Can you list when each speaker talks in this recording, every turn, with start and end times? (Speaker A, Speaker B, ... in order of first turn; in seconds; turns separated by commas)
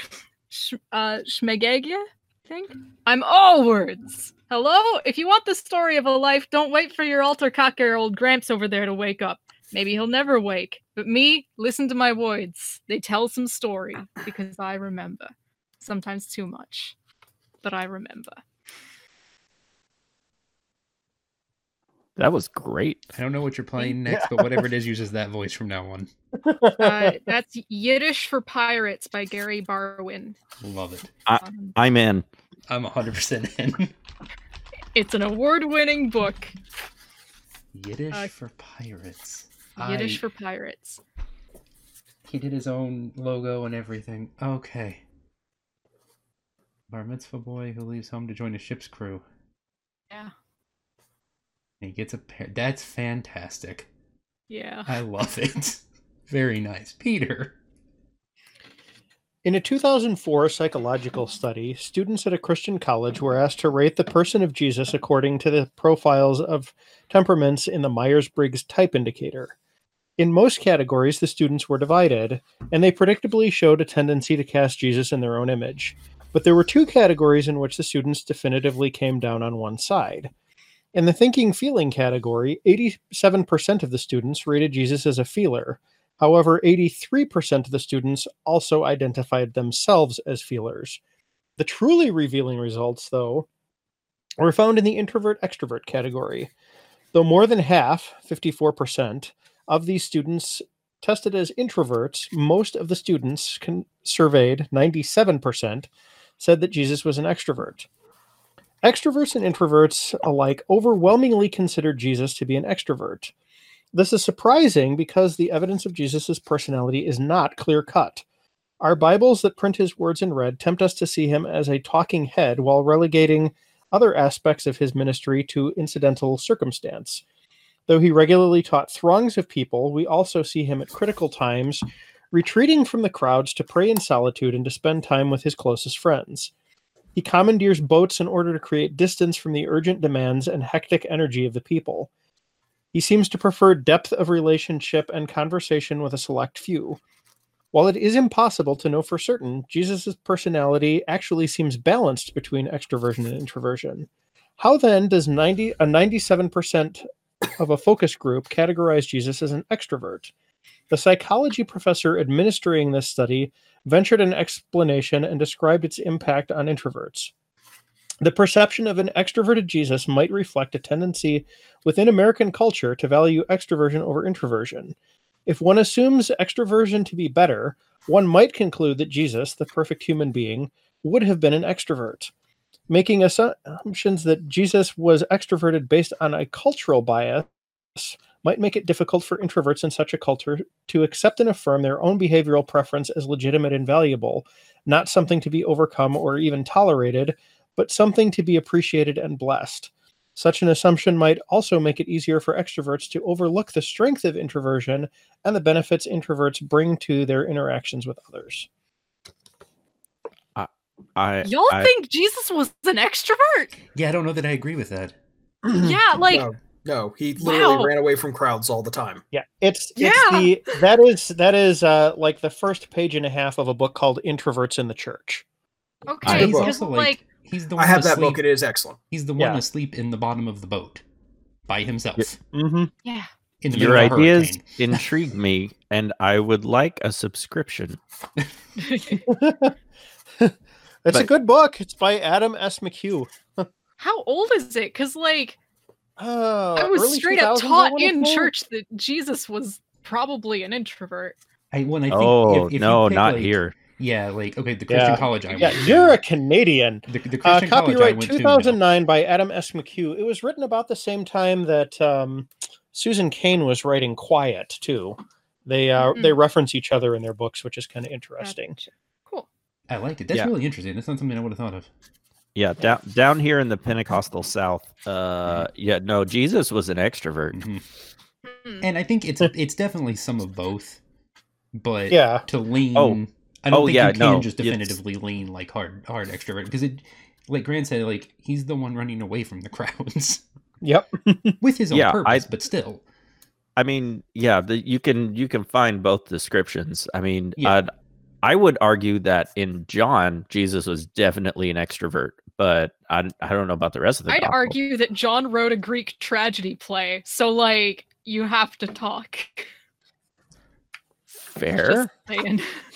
Speaker A: 0.5-16.9, Speaker A: 17.6-18.4, Speaker B: 22.2-23.0, Speaker C: 23.1-26.1, Speaker D: 24.1-24.6, Speaker D: 26.4-27.3, Speaker A: 26.8-30.4, Speaker C: 30.6-31.1, Speaker B: 31.3-32.2, Speaker A: 31.4-31.8, Speaker C: 32.7-33.9, Speaker A: 35.0-36.5, Speaker C: 37.7-40.2, Speaker A: 39.8-41.0, Speaker C: 42.2-45.0, Speaker C: 46.9-49.2, Speaker C: 51.8-53.9, Speaker A: 54.5-54.9, Speaker C: 54.9-57.6, Speaker D: 59.4-69.5, Speaker D: 70.2-80.3, Speaker D: 81.0-91.0, Speaker D: 91.6-93.5, Speaker D: 94.4-96.5, Speaker D: 97.1-105.9, Speaker D: 106.4-107.9, Speaker D: 108.8-113.3, Speaker D: 113.9-118.2, Speaker D: 118.8-127.2, Speaker D: 127.9-136.5, Speaker D: 137.2-142.1, Speaker D: 142.9-147.0, Speaker D: 147.7-160.3, Speaker D: 160.9-167.3, Speaker D: 168.2-174.9, Speaker D: 175.5-182.3, Speaker D: 182.9-208.7, Speaker B: 210.6-211.9, Speaker A: 211.4-213.7, Speaker C: 213.9-215.2, Speaker A: 215.8-216.5, Speaker E: 216.2-219.2, Speaker A: 217.4-217.9, Speaker D: 219.3-225.4, Speaker A: 220.0-220.5, Speaker A: 226.1-227.2, Speaker C: 226.3-228.4, Speaker E: 226.3-226.7, Speaker E: 227.8-229.0, Speaker C: 229.1-231.0, Speaker C: 231.7-232.4, Speaker D: 232.5-232.9, Speaker C: 233.6-234.6, Speaker B: 233.7-238.0, Speaker A: 238.8-239.2, Speaker D: 239.1-239.7, Speaker D: 240.4-243.7, Speaker A: 244.0-245.6, Speaker D: 246.2-248.5, Speaker A: 246.8-251.4, Speaker C: 251.7-256.2, Speaker B: 252.1-253.8, Speaker D: 254.9-268.8, Speaker C: 257.1-258.8, Speaker A: 266.0-266.4, Speaker A: 268.4-269.5, Speaker C: 269.9-271.9, Speaker B: 272.6-277.6, Speaker C: 277.5-277.8, Speaker A: 278.4-278.9, Speaker C: 278.8-281.0, Speaker C: 281.7-290.4, Speaker D: 282.1-282.4, Speaker B: 282.9-283.2, Speaker B: 283.7-285.0, Speaker D: 290.8-291.6, Speaker C: 291.6-293.0, Speaker B: 291.9-292.4, Speaker B: 293.8-297.9, Speaker B: 298.4-304.8, Speaker A: 304.3-309.7, Speaker B: 311.5-312.1, Speaker A: 311.7-312.7